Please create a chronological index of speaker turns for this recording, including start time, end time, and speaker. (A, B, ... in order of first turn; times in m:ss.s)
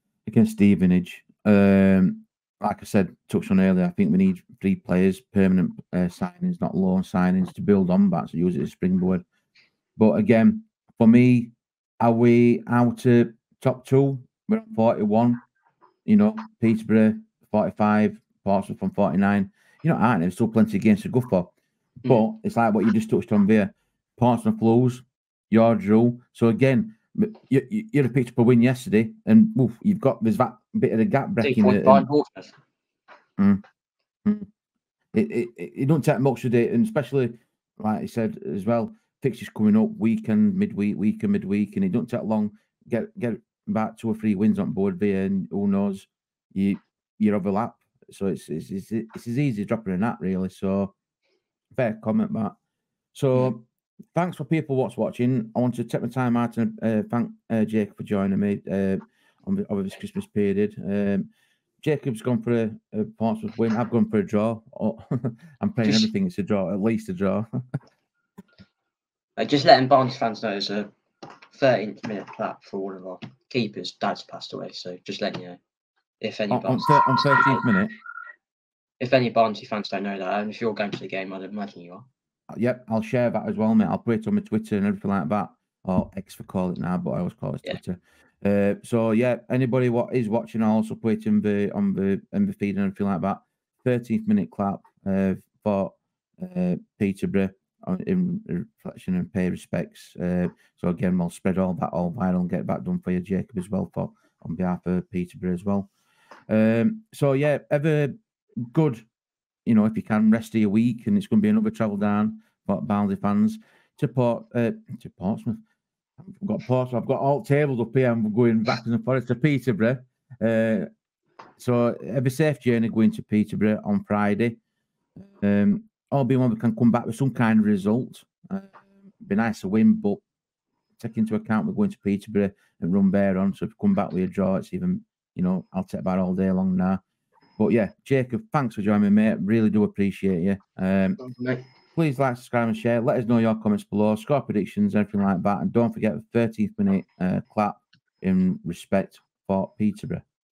0:00.2-0:09.2 A
0:10.0-0:15.4 A
0:16.0-0:21.5 A
0:22.0-0:32.1 A
0:31.4-0:32.5 B
0:33.4-0:33.6 A
0:35.1-0:50.9 A
0:51.7-0:52.6 A
0:53.1-0:53.6 A
0:54.1-1:01.3 A
1:01.8-1:07.5 A
1:05.8-1:06.1 B
1:09.4-1:10.9 B
1:11.4-1:15.6 B
1:16.2-1:17.6 B
1:16.5-1:17.9 A
1:19.0-1:22.0 B
1:22.5-1:45.9 A
1:46.5-1:49.0 A
1:49.6-1:55.6 A
1:56.2-2:00.9 A
2:01.6-2:04.6 A
2:05.2-2:10.2 A
2:11.0-2:17.0 A
2:17.6-2:21.2 A
2:21.2-2:21.6 B
2:21.9-2:30.2 A